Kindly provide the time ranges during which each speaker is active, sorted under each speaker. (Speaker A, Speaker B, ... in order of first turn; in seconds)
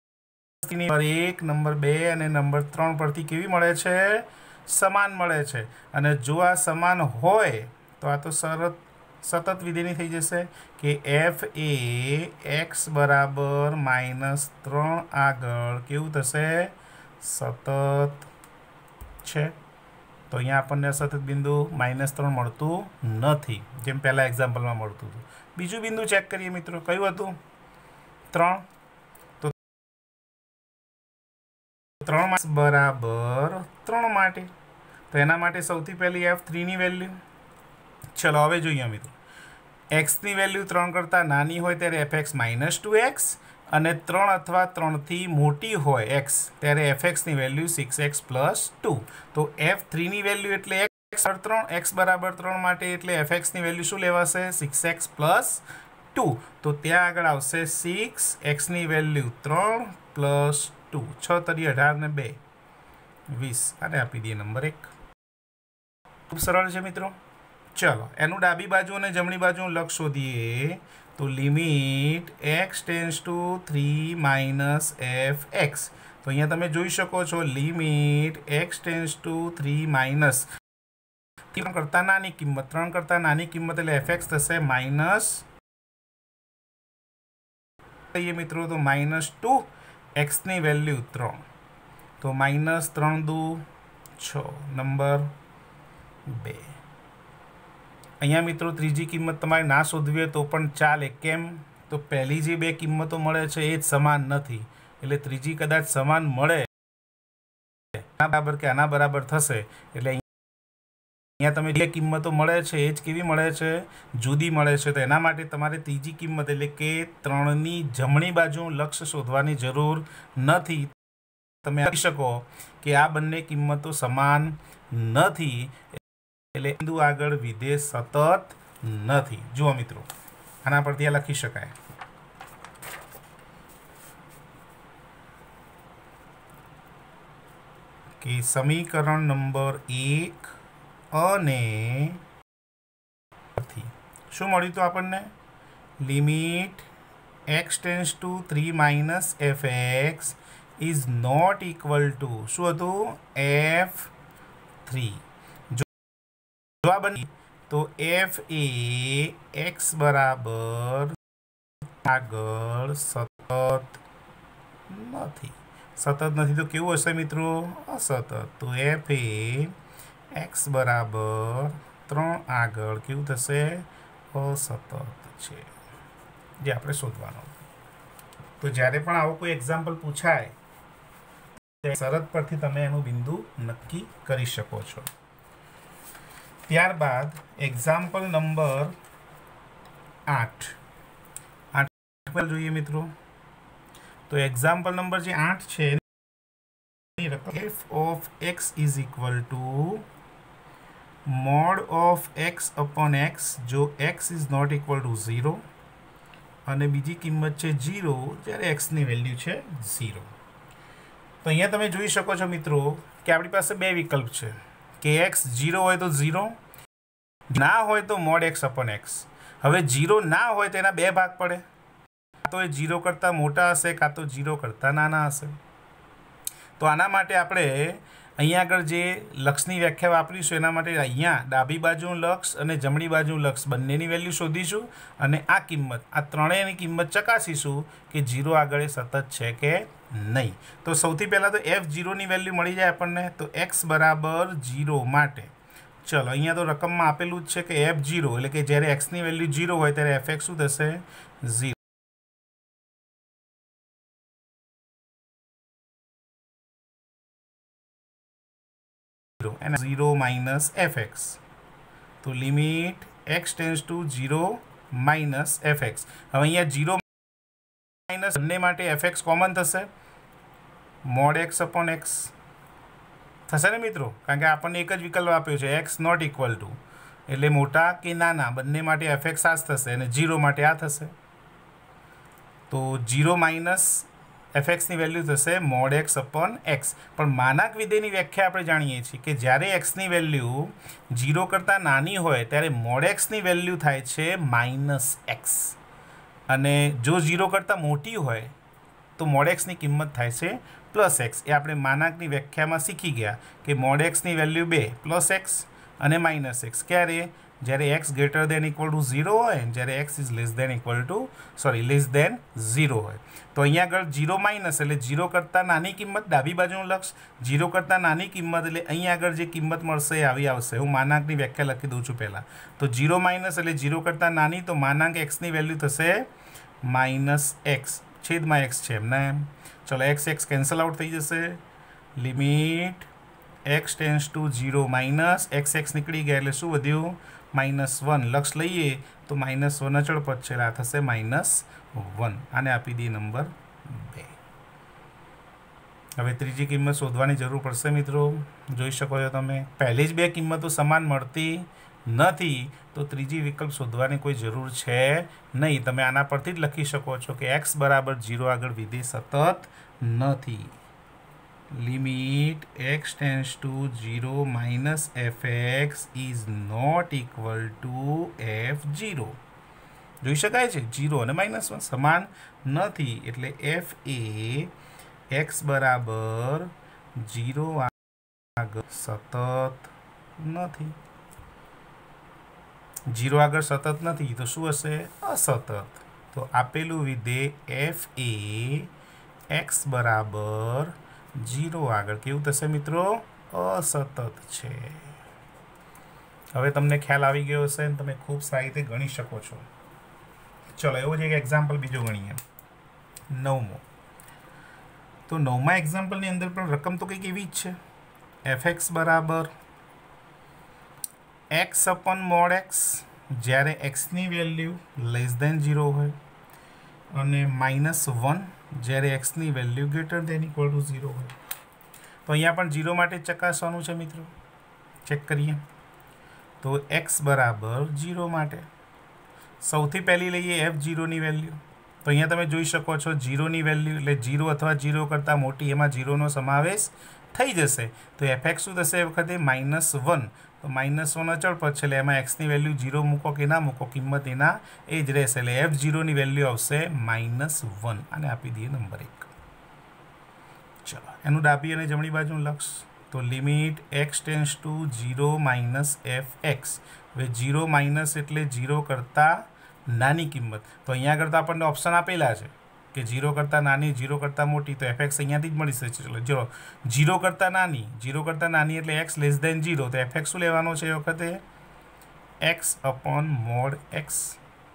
Speaker A: 0.6-18.3, 19.2-19.6, 20.3-27.4, 28.3-28.6, 32.0-34.5, 35.1-37.2, 38.1-39.1, 39.9-55.6, 56.1-62.4, 63.3-64.9, 66.3-67.2, 67.8-80.5, 81.5-85.5, 88.1-91.5, 92.2-93.6, 94.2-95.3, 96.2-96.8, 98.2-106.7, 108.0-110.2, 111.4-121.0, 121.6-125.9, 126.5-130.1, 130.6-131.7, 138.2-140.5, 141.1-142.2, 143.6-145.3, 146.0-146.9, 147.5-154.1, 154.8-155.9, 156.8-161.2, 162.0-164.0, 164.9-169.7, 170.3-175.7, 176.6-177.7, 178.6-180.6, 181.8-185.1, 186.7-189.0, 190.3-190.8, 191.7-193.1, 194.3-196.0, 197.2-200.1, 201.3-205.6, 206.7-210.3, 211.4-216.6, 217.5-221.6, 222.4-225.6, 226.8-245.5, 246.0-251.8, 259.4-261.4, 262.2-267.0, 268.1-269.9, 271.0-272.3, 273.5-281.1, 282.7-295.8, 296.5-298.5, 299.2-326.3, 326.8-331.6, 332.2-333.1, 333.6-344.4, 346.2-360.8, 361.7-369.4, 370.2-374.7, 375.3-378.0, 378.6-381.0, 383.1-388.9, 389.5-395.1, 396.5-399.6, 400.8-402.4, 403.3-403.8, 405.3-407.8, 408.4-409.5, 411.5-416.1, 417.1-421.4, 422.2-424.3, 425.0-425.6, 426.6-428.7, 429.6-449.3, 450.9-471.4, 472.4-474.4